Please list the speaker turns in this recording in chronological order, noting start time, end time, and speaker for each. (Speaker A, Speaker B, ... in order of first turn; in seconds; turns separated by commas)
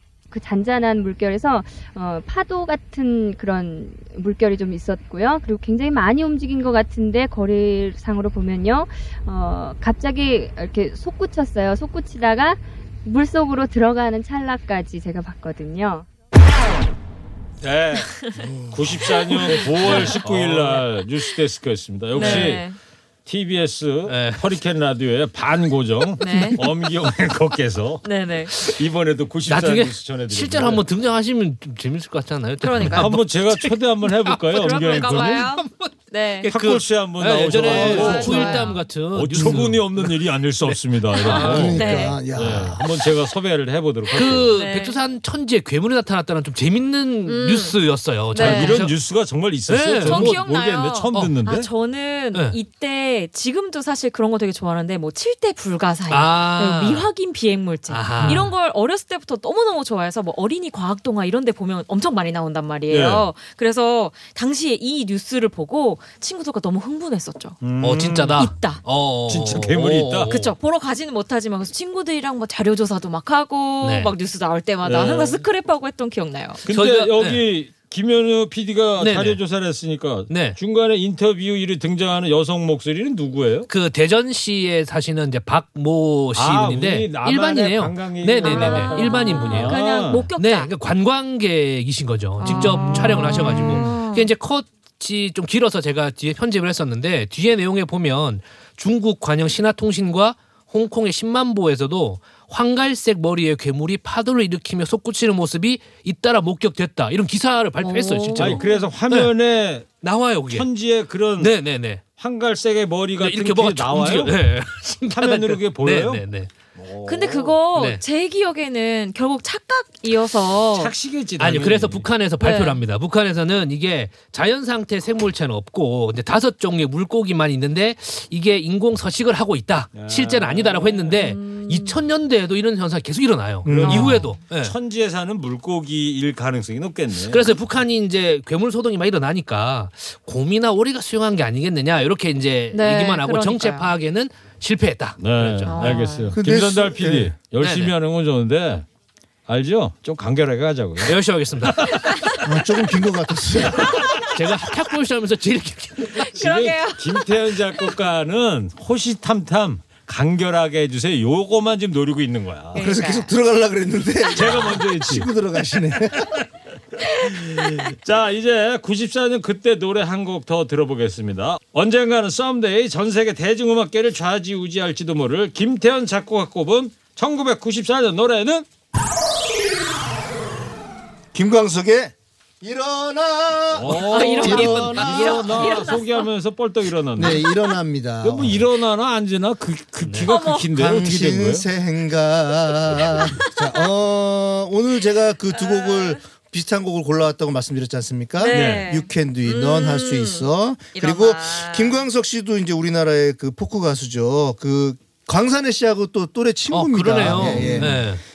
Speaker A: 0.3-16.1, Speaker B: 17.6-18.1, Speaker C: 18.4-19.6, Speaker B: 18.7-22.7, Speaker D: 19.8-20.8, Speaker E: 22.1-22.8, Speaker D: 22.2-22.6, Speaker B: 23.2-28.0, Speaker D: 24.1-24.4, Speaker E: 26.2-26.6, Speaker E: 28.0-28.5, Speaker B: 28.6-30.8, Speaker D: 29.5-40.1, Speaker E: 32.6-33.1, Speaker B: 33.0-35.5, Speaker E: 34.5-36.5, Speaker B: 36.5-44.5, Speaker C: 37.6-38.4, Speaker E: 37.8-38.9, Speaker D: 40.7-41.8, Speaker E: 41.3-42.2, Speaker C: 41.3-42.8, Speaker D: 44.1-49.0, Speaker E: 44.2-45.0, Speaker E: 47.2-47.8, Speaker E: 48.3-48.9, Speaker B: 48.4-51.7, Speaker D: 49.7-50.4, Speaker E: 50.0-67.6, Speaker D: 56.1-57.1, Speaker D: 57.9-58.5, Speaker B: 58.2-58.4, Speaker B: 62.9-63.3, Speaker B: 67.6-68.4, Speaker D: 67.8-70.5, Speaker E: 68.4-68.8, Speaker B: 69.3-70.3, Speaker E: 70.3-76.6, Speaker D: 73.8-74.1, Speaker B: 74.8-75.4, Speaker B: 76.7-83.7, Speaker D: 76.7-77.4, Speaker D: 79.0-79.4, Speaker D: 80.3-80.6, Speaker D: 83.7-89.8, Speaker B: 86.3-90.3, Speaker E: 88.4-90.7, Speaker D: 90.4-109.3, Speaker E: 92.4-94.3, Speaker E: 107.8-108.8, Speaker B: 108.4-109.9, Speaker D: 110.0-110.7, Speaker B: 110.5-111.5, Speaker D: 111.4-112.0, Speaker B: 112.2-114.4, Speaker D: 113.2-116.5, Speaker B: 115.1-116.2, Speaker B: 116.8-117.5, Speaker E: 117.0-120.9, Speaker D: 117.7-118.0, Speaker B: 120.7-122.1, Speaker D: 121.4-134.7, Speaker E: 122.4-122.8, Speaker B: 129.9-131.2, Speaker E: 131.1-132.0, Speaker C: 133.6-134.2, Speaker B: 133.8-137.5, Speaker E: 133.8-134.3, Speaker D: 137.3-146.1, Speaker E: 142.7-143.9, Speaker B: 145.2-148.8, Speaker E: 145.7-146.3, Speaker C: 146.3-147.3, Speaker D: 147.6-147.9, Speaker B: 149.5-152.0, Speaker D: 151.0-152.2, Speaker C: 152.4-154.0, Speaker D: 154.3-156.2, Speaker E: 156.2-157.2, Speaker B: 156.3-162.8, Speaker E: 162.7-163.3, Speaker C: 162.8-166.3, Speaker B: 164.3-165.3, Speaker B: 167.2-178.7, Speaker C: 181.3-185.7, Speaker B: 183.7-187.4, Speaker E: 184.1-186.3, Speaker D: 184.5-184.8, Speaker C: 187.2-188.6, Speaker E: 187.2-187.4, Speaker B: 188.2-191.7, Speaker D: 190.0-190.3, Speaker E: 190.3-190.7, Speaker C: 190.7-208.0, Speaker E: 195.6-196.2, Speaker E: 198.4-202.0, Speaker B: 198.4-198.9, Speaker D: 206.7-208.2, Speaker B: 207.4-207.9